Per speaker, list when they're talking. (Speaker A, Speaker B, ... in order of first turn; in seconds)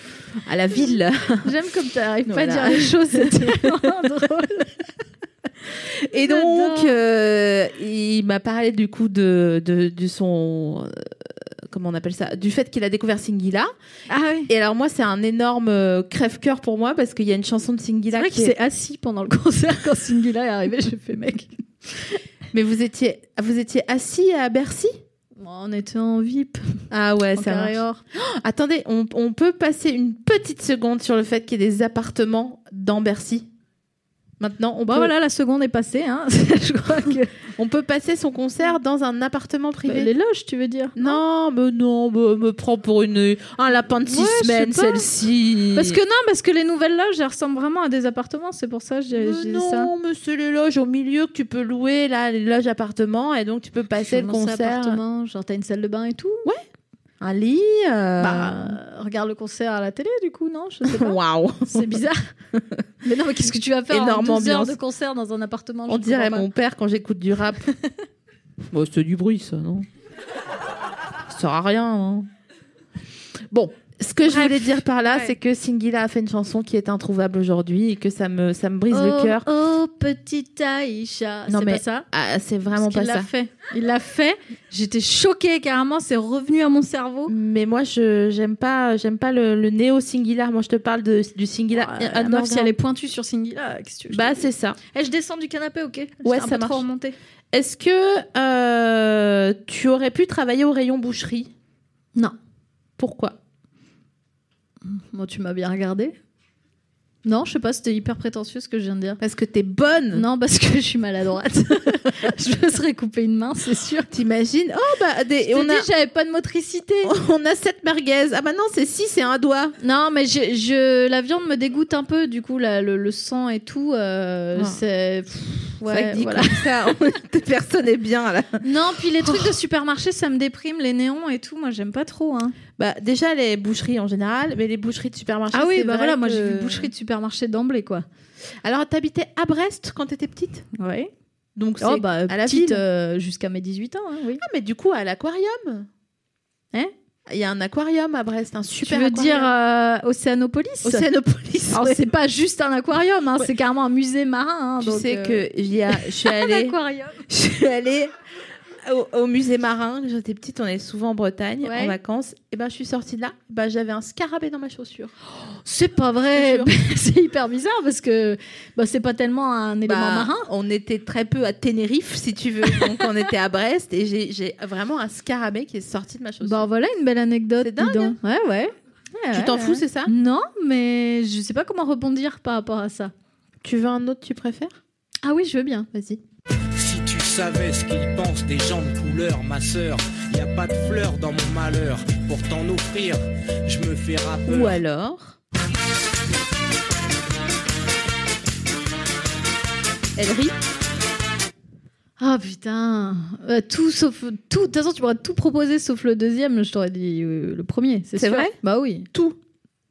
Speaker A: 0.4-1.5, 2.2-3.9, 5.8-11.0, 11.7-13.7, 14.5-18.5, 22.5-24.9, 26.9-33.5, 34.4-35.1, 37.5-40.1, 41.0-46.0, 49.1-55.0, 57.2-58.8, 60.9-62.0, 62.5-62.8, 63.9-64.8, 65.9-67.7, 68.7-69.9, 71.2-72.3, 73.5-79.4, 81.5-83.3, 87.3-92.7, 94.1-94.8, 96.2-96.8, 97.5-101.5, 103.0-103.3, 109.2-110.2, 114.1-115.9, 117.0-119.8, 124.5-124.8, 125.8-128.6, 129.2-129.6, 132.8-136.9, 138.6-140.7, 141.6-142.8, 144.4-145.9, 147.3-149.5, 150.8-152.0, 154.8-156.8, 157.3-158.1, 158.8-165.1, 166.3-166.7, 169.8-176.7, 177.6-178.2, 179.3-180.1, 183.6-184.8, 185.9-186.2, 194.4-195.4, 200.2-200.5, 208.2-208.5
Speaker B: 1.4-4.9, 6.2-6.9, 14.1-14.5, 18.1-22.1, 25.4-26.8, 27.3-28.0, 34.9-37.4, 39.9-41.2, 44.0-45.1, 45.7-49.9, 54.0-56.5, 58.2-62.3, 63.0-66.5, 74.2-75.3, 78.9-82.0, 82.8-87.3, 91.7-97.2, 104.9-106.2, 107.2-109.2, 110.1-114.1, 115.5-117.1, 119.8-126.7, 128.6-132.6, 135.5-138.0, 140.8-141.1, 141.8-144.4, 148.8-151.1, 151.7-157.2, 161.6-161.9, 165.6-170.5, 172.7-173.0, 176.4-183.1, 185.2-185.9, 202.2-209.1
Speaker C: 186.8-194.7